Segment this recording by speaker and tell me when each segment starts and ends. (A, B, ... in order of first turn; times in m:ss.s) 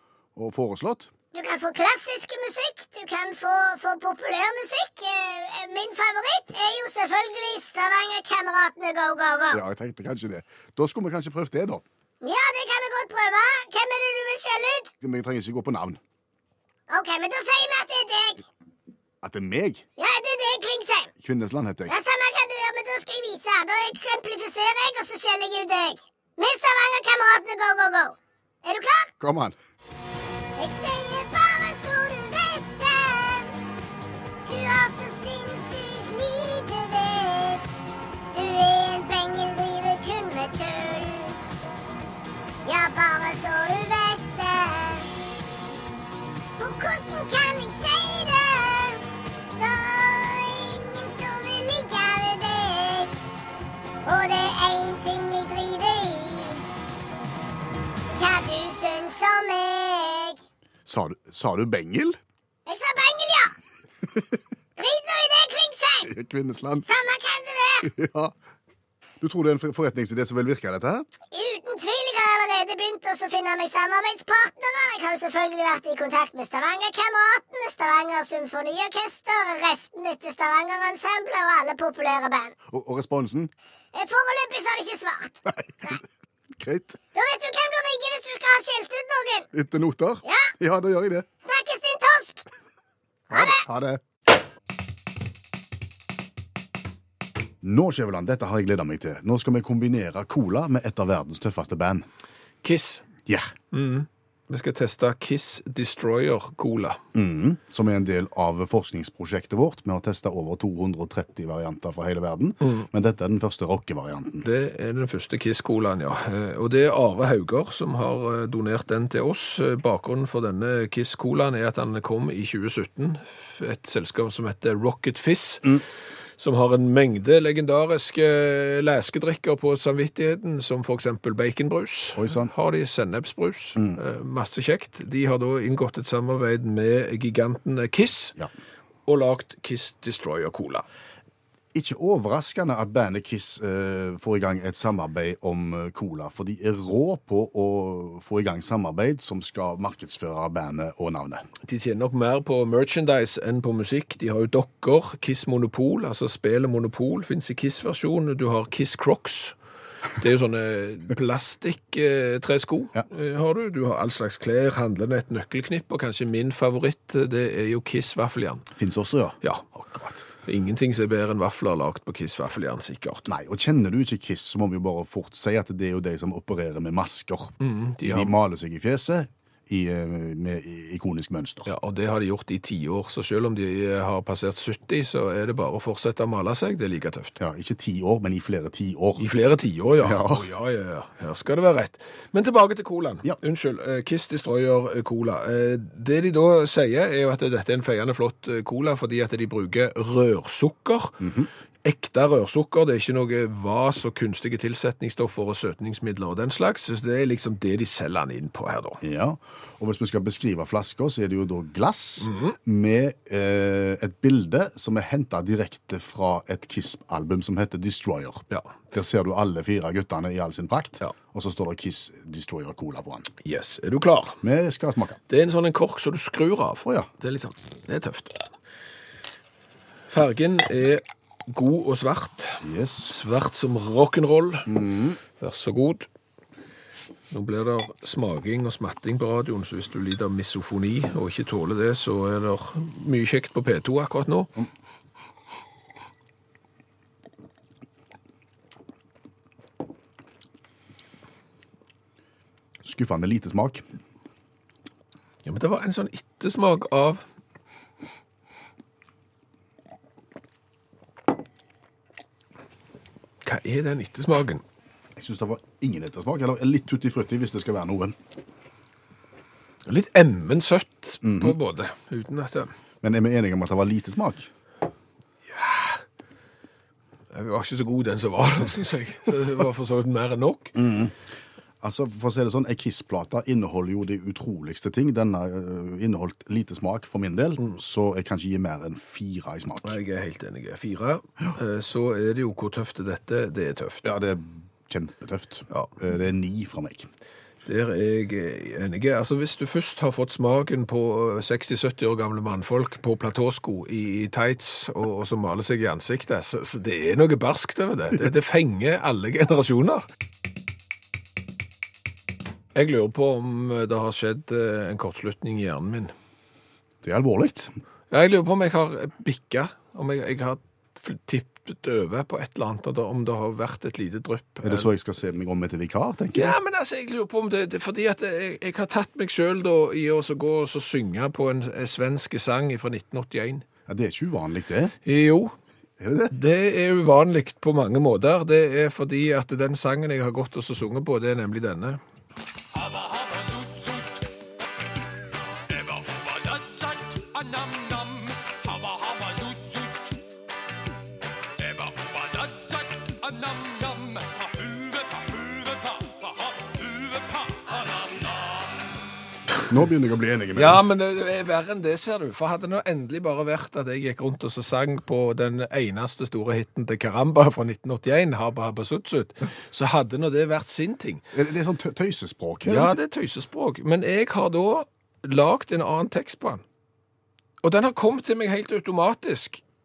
0:00.4-0:01.1 A
0:01.3-0:09.6 B
0:09.5-0:11.8 A
0:12.2-0:14.9 B
0:15.0-0:16.0 A
0:16.9-0:18.4 B
0:19.2-0:19.8 A
0:20.0-0:21.1 B
0:21.2-0:21.9 A
0:21.9-0:29.1 B
0:29.2-0:29.6 A
0:30.6-0:33.5 B
0:34.4-0:37.6 B
0:38.3-0:41.4 B
0:42.6-0:45.1 B
0:46.6-0:49.0 B
0:49.6-0:53.2 B
0:54.0-0:56.6 B
0:58.1-1:00.4 B
1:00.9-1:02.2 A
1:02.7-1:03.6 B
1:04.8-1:06.1 B
1:06.0-1:06.9 A
1:06.9-1:07.9 B
1:07.8-1:08.3 A
1:09.2-1:11.1 A
1:11.3-1:22.6 B
1:22.7-1:23.5 A
1:23.9-1:26.0 B
1:25.5-1:26.0 A
1:26.6-1:27.0 A
1:27.2-1:29.5 B
1:29.5-1:31.3 A
1:30.2-1:30.5 B
1:31.4-1:32.4 B
1:33.3-1:33.6 B
1:33.3-1:34.0 A
1:37.6-1:42.1 A
1:42.6-1:43.1 C
1:43.3-1:43.5 A
1:43.7-1:47.0 C
1:47.1-1:54.5 A
1:54.4-2:05.8 C
2:06.4-2:18.4 C
2:12.2-2:12.5 A
2:19.1-2:20.8 C
2:21.7-2:31.5 A
2:31.7-2:39.6 C
2:40.2-2:48.7 C
2:48.8-2:50.2 A
2:50.4-2:53.3 C
2:53.3-3:01.7 A
2:57.6-2:58.3 C
3:01.7-3:07.4 C
3:07.4-3:09.2 A
3:09.2-3:21.2 C
3:10.0-3:10.5 A
3:21.2-3:21.5 A
3:21.8-3:29.0 C
3:29.0-3:43.3 A
3:32.2-3:32.6 C
3:43.4-3:44.4 C
3:44.4-3:45.2 A
3:45.3-3:48.4 C
3:46.8-3:47.1 A
3:50.1-3:54.7 C
3:52.6-3:53.1 A
3:54.7-3:55.2 A
3:55.4-3:56.1 C
3:57.3-4:04.5 C
4:12.8-4:13.8 A
4:15.4-4:17.2 C
4:23.4-4:24.6 C
4:25.2-4:28.2 A
4:29.9-4:32.7 C
4:31.2-4:31.6 A
4:33.0-4:34.5 A
4:35.5-4:36.0 C
4:37.3-4:40.7 C
4:40.8-4:41.2 A
4:41.8-4:50.0 A
4:49.8-4:54.0 C
4:54.0-4:57.1 A
4:57.6-5:10.0 C
5:12.8-5:16.1 C
5:17.0-5:17.7 A
5:18.1-5:24.9 C
5:24.6-5:26.6 A
5:26.3-5:33.7 C
5:33.9-5:34.9 A
5:35.0-5:35.6 C
5:36.0-5:36.4 A
5:36.3-5:42.0 C
5:43.1-5:44.1 C
5:45.7-5:50.0 C
5:51.6-5:58.5 C
5:59.7-6:00.8 A
6:00.6-6:11.2 C
6:11.3-6:13.0 A
6:12.6-6:16.6 C
6:17.6-6:19.6 C